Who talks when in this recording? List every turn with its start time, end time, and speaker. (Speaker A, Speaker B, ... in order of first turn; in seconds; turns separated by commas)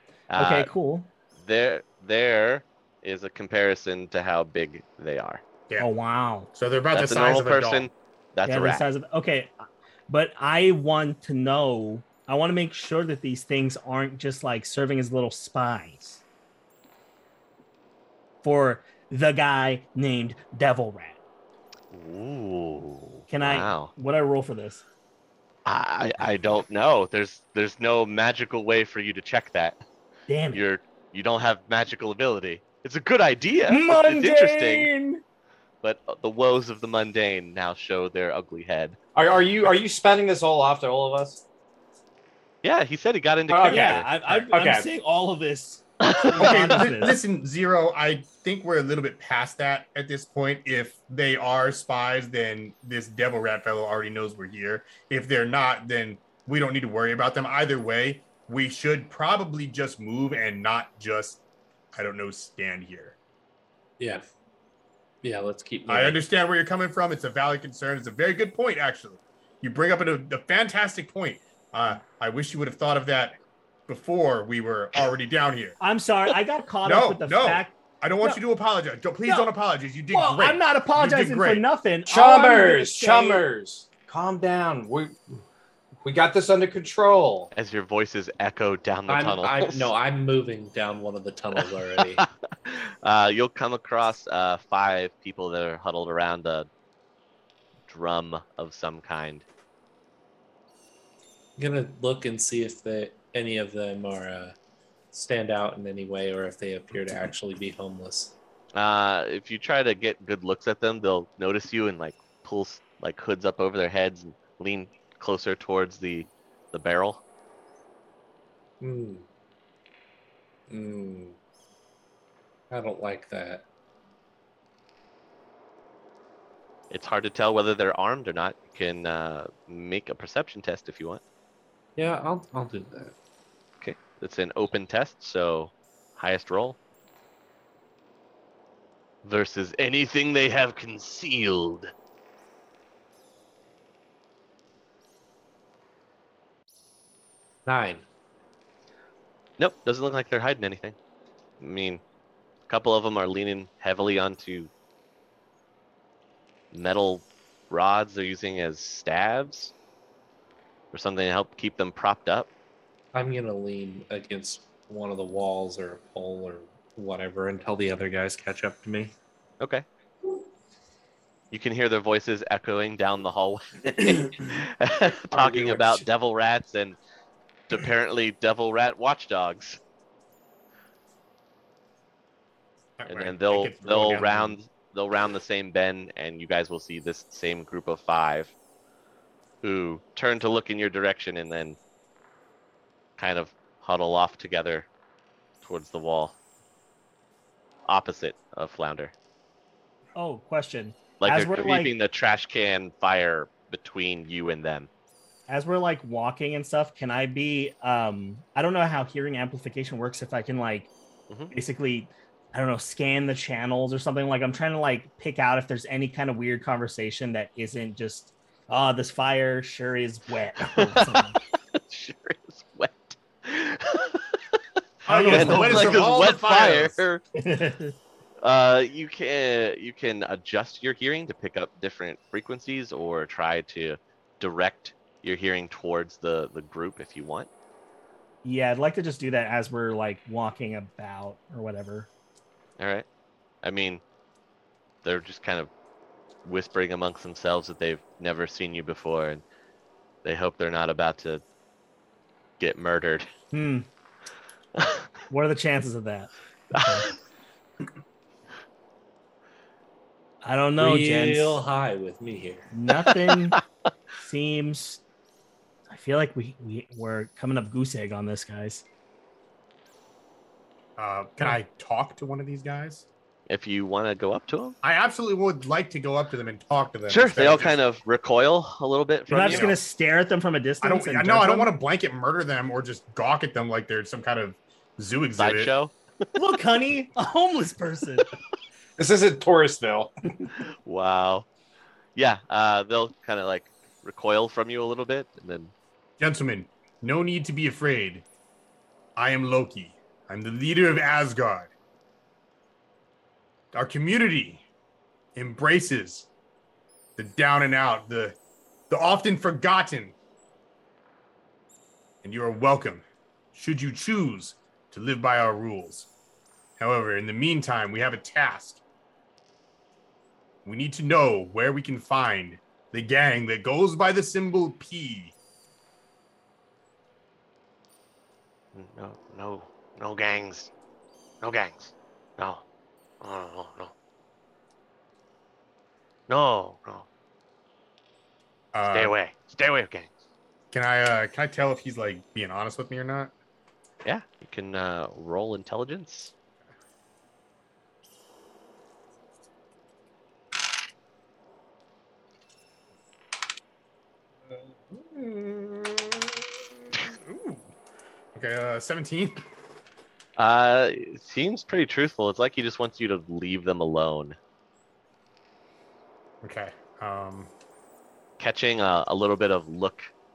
Speaker A: 0.3-0.7, Speaker B: 0.4-1.1, Speaker A: 1.4-5.4, Speaker B: 5.8-6.5, Speaker C: 6.5-7.9, Speaker A: 6.9-8.9, Speaker B: 8.5-16.2, Speaker B: 18.4-21.2, Speaker A: 21.9-23.9, Speaker B: 23.3-24.8, Speaker A: 25.7-29.8, Speaker B: 30.3-30.6, Speaker A: 30.5-34.9, Speaker B: 33.7-35.2, Speaker A: 35.8-39.0, Speaker D: 39.1-41.4, Speaker A: 42.6-44.1, Speaker D: 43.5-44.9, Speaker B: 43.6-47.2, Speaker A: 46.0-46.9, Speaker C: 46.4-61.4, Speaker C: 62.0-63.2, Speaker E: 64.0-64.2, Speaker E: 65.2-66.2, Speaker C: 65.9-75.8, Speaker B: 75.8-78.4, Speaker C: 76.8-81.6, Speaker B: 79.2-79.5, Speaker B: 80.1-83.5, Speaker D: 82.1-85.2, Speaker D: 86.0-87.5, Speaker A: 87.5-89.9, Speaker E: 89.1-92.2, Speaker A: 91.6-96.7, Speaker A: 97.9-99.5, Speaker E: 101.6-104.6, Speaker E: 105.1-108.3, Speaker A: 108.8-117.2, Speaker E: 118.8-119.3, Speaker E: 120.7-121.4, Speaker E: 122.7-123.7, Speaker A: 126.9-131.2, Speaker E: 132.0-133.2, Speaker A: 133.8-136.8, Speaker A: 139.2-141.9, Speaker E: 147.7-148.1, Speaker A: 149.6-151.0, Speaker A: 151.6-152.0, Speaker A: 152.7-154.7, Speaker A: 156.7-159.7, Speaker A: 160.9-162.5, Speaker E: 163.1-169.1, Speaker A: 169.6-169.8, Speaker A: 171.5-177.0, Speaker A: 177.7-179.8, Speaker C: 183.0-184.6, Speaker A: 183.1-188.5, Speaker A: 189.6-191.8, Speaker A: 193.2-194.9, Speaker A: 195.6-196.4, Speaker A: 197.9-199.1, Speaker B: 200.2-201.9, Speaker A: 201.2-204.9, Speaker B: 205.5-210.9, Speaker B: 211.5-221.4, Speaker A: 220.7-224.6, Speaker C: 225.1-227.0, Speaker B: 225.1-226.0, Speaker A: 225.3-227.2, Speaker B: 227.4-227.9, Speaker A: 228.4-237.5, Speaker B: 238.4-242.1, Speaker A: 242.8-243.1, Speaker A: 243.6-244.0, Speaker A: 245.0-245.7, Speaker A: 246.4-249.4, Speaker A: 250.2-251.4, Speaker A: 252.6-253.3, Speaker B: 253.5-253.9, Speaker A: 254.8-255.1, Speaker B: 255.3-257.1, Speaker A: 256.7-257.1, Speaker B: 260.4-261.6, Speaker E: 260.8-262.7, Speaker B: 262.7-263.6, Speaker B: 264.2-265.0, Speaker B: 265.9-268.8, Speaker C: 271.0-273.1, Speaker A: 273.5-274.8, Speaker C: 274.8-277.8, Speaker A: 277.1-279.8, Speaker B: 279.3-281.7, Speaker C: 279.4-279.7, Speaker C: 280.8-285.7, Speaker A: 285.4-285.9, Speaker B: 286.4-288.3, Speaker D: 289.0-290.1, Speaker A: 290.6-291.5, Speaker A: 292.2-295.7, Speaker C: 296.2-298.2, Speaker C: 299.2-301.7, Speaker C: 303.7-304.6, Speaker C: 305.4-306.3, Speaker C: 307.2-308.4, Speaker C: 308.9-310.1, Speaker C: 312.2-316.1, Speaker C: 316.8-318.8, Speaker C: 320.6-325.4, Speaker A: 328.7-330.7, Speaker A: 331.4-332.6, Speaker A: 333.2-333.9, Speaker A: 336.3-337.1, Speaker C: 338.7-339.1, Speaker A: 338.9-340.1, Speaker C: 340.7-343.3, Speaker A: 344.1-346.3, Speaker C: 354.5-356.4, Speaker C: 356.9-357.7, Speaker C: 358.4-359.4, Speaker A: 360.4-364.4, Speaker C: 366.4-367.5, Speaker A: 368.4-370.1